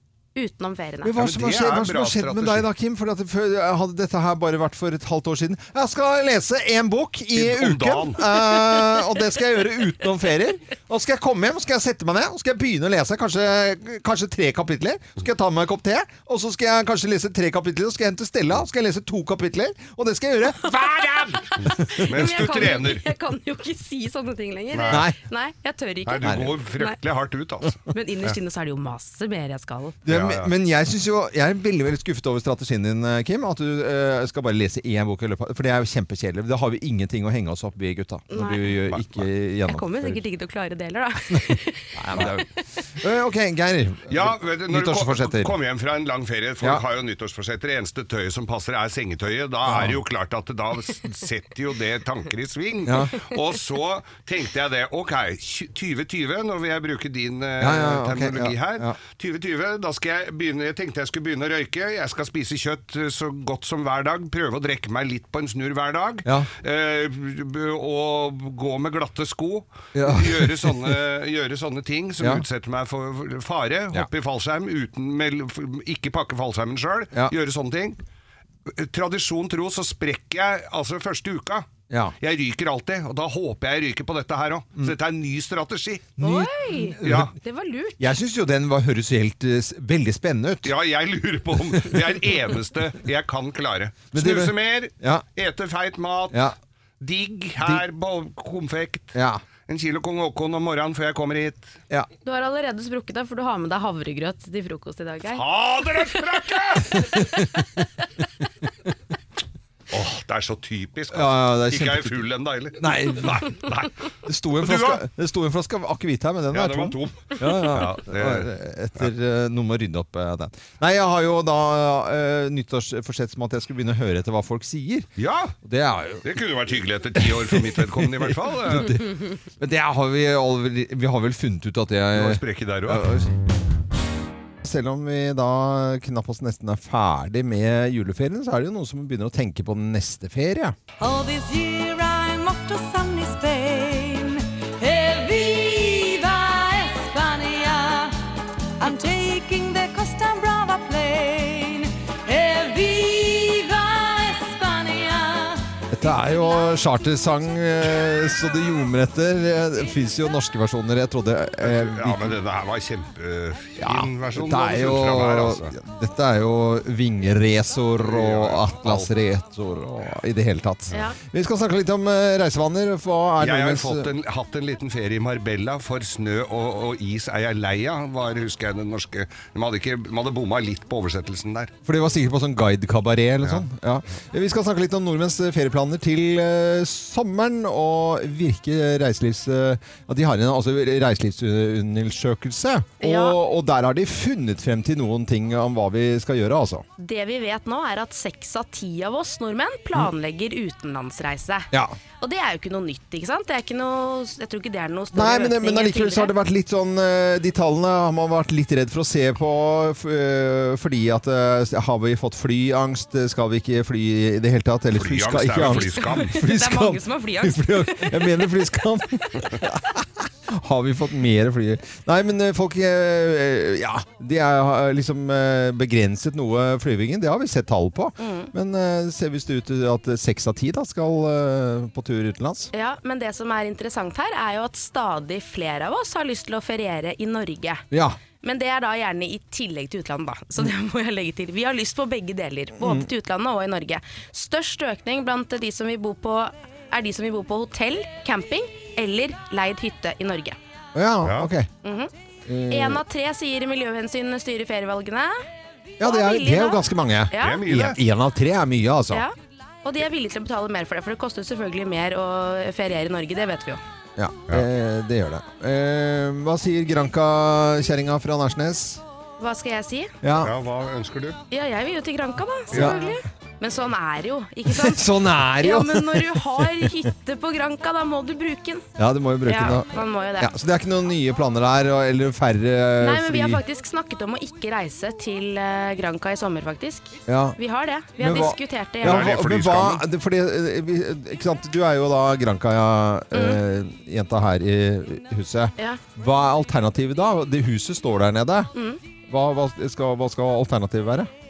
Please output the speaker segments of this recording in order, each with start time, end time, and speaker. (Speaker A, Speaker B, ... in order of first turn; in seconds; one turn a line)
Speaker A: 0.3-1.1
Speaker B: 1.0-22.1
Speaker C: 1.1-2.7
Speaker C: 7.3-8.5
Speaker A: 20.7-27.0
Speaker C: 21.6-23.1
Speaker C: 24.7-25.1
Speaker B: 24.9-25.2
Speaker C: 26.1-28.4
Speaker B: 26.2-26.5
Speaker A: 27.9-30.0
Speaker B: 30.1-40.2
Speaker C: 30.1-30.5
Speaker A: 38.3-38.8
Speaker A: 39.7-42.6
Speaker B: 41.3-45.6
Speaker C: 44.1-78.0
Speaker B: 49.6-50.0
Speaker B: 52.9-53.2
Speaker B: 57.6-59.0
Speaker B: 66.2-66.5
Speaker B: 69.9-70.9
Speaker C: 78.7-81.7
Speaker B: 81.9-82.2
Speaker C: 82.2-86.1
Speaker B: 86.2-87.3
Speaker A: 86.2-88.1
Speaker C: 87.0-87.3
Speaker B: 88.0-90.7
Speaker C: 90.6-96.4
Speaker B: 94.1-95.3
Speaker C: 97.0-99.2
Speaker B: 99.1-99.4
Speaker C: 99.7-101.8
Speaker A: 102.2-105.4
Speaker C: 105.3-107.3
Speaker B: 107.0-107.8
Speaker C: 109.9-114.0
Speaker B: 111.1-112.2
Speaker B: 112.8-113.5
Speaker B: 114.2-125.1
Speaker C: 114.5-115.0
Speaker C: 116.5-119.1
Speaker C: 125.2-125.5
Speaker B: 125.6-126.3
Speaker C: 126.2-129.0
Speaker B: 127.2-133.3
Speaker C: 132.1-133.1
Speaker B: 134.6-140.8
Speaker D: 141.0-148.2
Speaker D: 148.8-155.7
Speaker B: 155.9-162.4
Speaker C: 161.6-165.8
Speaker B: 163.8-174.1
Speaker C: 168.0-169.1
Speaker A: 170.9-171.2
Speaker C: 173.4-181.7
Speaker B: 181.8-196.8
Speaker A: 193.0-193.4
Speaker A: 197.0-206.3
Speaker B: 201.7-202.0
Speaker B: 205.1-232.7
Speaker C: 214.9-216.3
Speaker A: 215.6-218.4
Speaker A: 228.2-228.5
Speaker A: 232.7-237.8
Speaker B: 237.9-238.2
Speaker A: 238.4-250.6
Speaker B: 242.8-243.1
Speaker B: 250.9-251.7
Speaker C: 251.2-251.5
Speaker A: 251.8-252.1
Speaker B: 252.5-253.0
Speaker A: 252.7-255.4
Speaker A: 256.0-257.6
Speaker B: 256.0-259.2
Speaker C: 257.4-258.0
Speaker A: 259.1-263.8
Speaker B: 264.2-269.0
Speaker A: 269.4-270.1
Speaker B: 270.2-270.6
Speaker C: 270.4-271.4
Speaker A: 271.5-278.9
Speaker C: 272.7-273.0
Speaker B: 272.7-273.0
Speaker B: 274.7-277.1
Speaker B: 279.0-283.6
Speaker A: 279.5-280.5
Speaker A: 283.0-289.3
Speaker B: 287.3-287.6
Speaker B: 288.2-298.7
Speaker C: 289.0-290.1
Speaker A: 293.3-293.6
Speaker A: 298.8-299.0
Speaker B: 299.3-301.3